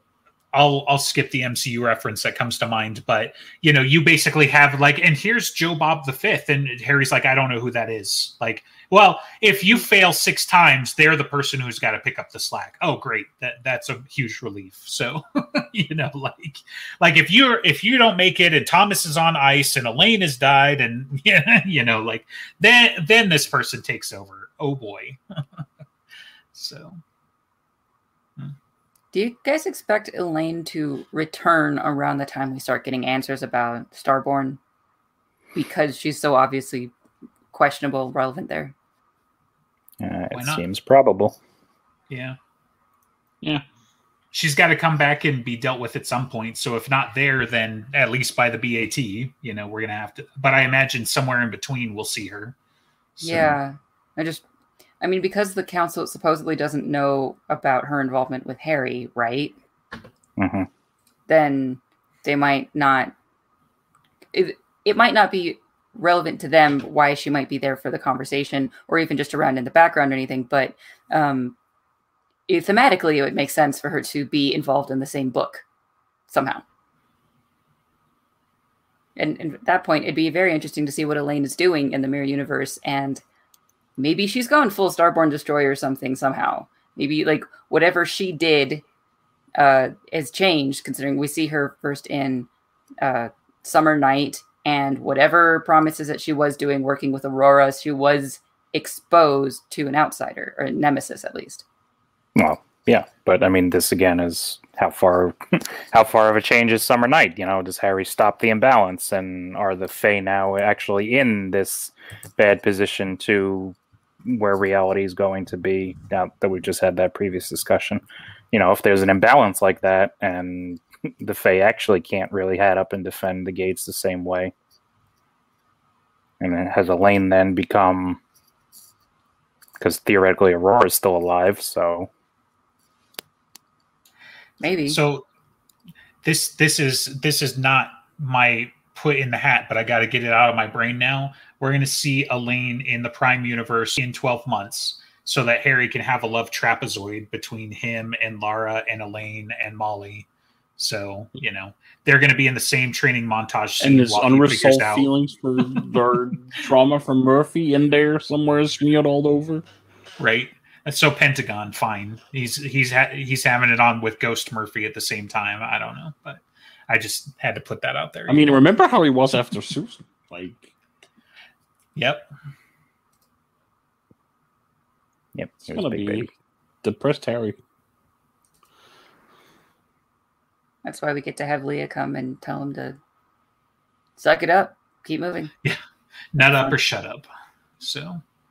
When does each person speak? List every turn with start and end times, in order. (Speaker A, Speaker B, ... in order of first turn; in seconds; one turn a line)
Speaker A: 0.5-25.2
Speaker A: 26.5-27.0
Speaker B: 29.1-34.6
Speaker B: 35.5-36.9
Speaker B: 37.5-38.7
Speaker C: 40.0-41.4
Speaker A: 40.3-40.6
Speaker A: 42.1-42.4
Speaker A: 44.3-52.5
Speaker A: 53.2-53.5
Speaker B: 53.2-54.4
Speaker C: 53.3-53.5
Speaker B: 55.0-59.5
Speaker C: 60.4-60.7
Speaker B: 61.3-63.1
Speaker B: 64.3-71.5
Speaker B: 72.5-75.6
Speaker B: 76.3-76.6
Speaker B: 79.2-83.2
Speaker B: 84.0-88.8
Speaker B: 89.5-92.5
Speaker B: 93.0-101.6
Speaker C: 102.3-124.5
Speaker C: 126.4-128.2
Speaker C: 129.8-132.1
Speaker B: 134.6-135.0
Speaker A: 134.8-135.2
Speaker A: 136.2-150.3
Speaker A: 150.8-155.1
Speaker D: 153.8-159.6
Speaker A: 160.2-168.6
Speaker D: 168.3-170.7
Speaker A: 171.9-172.2
Speaker C: 175.3-176.3
Speaker D: 175.7-176.3
Speaker D: 176.8-177.6
Speaker B: 180.8-183.0
Speaker B: 184.2-185.5
Speaker A: 186.3-187.2
Speaker A: 187.8-188.2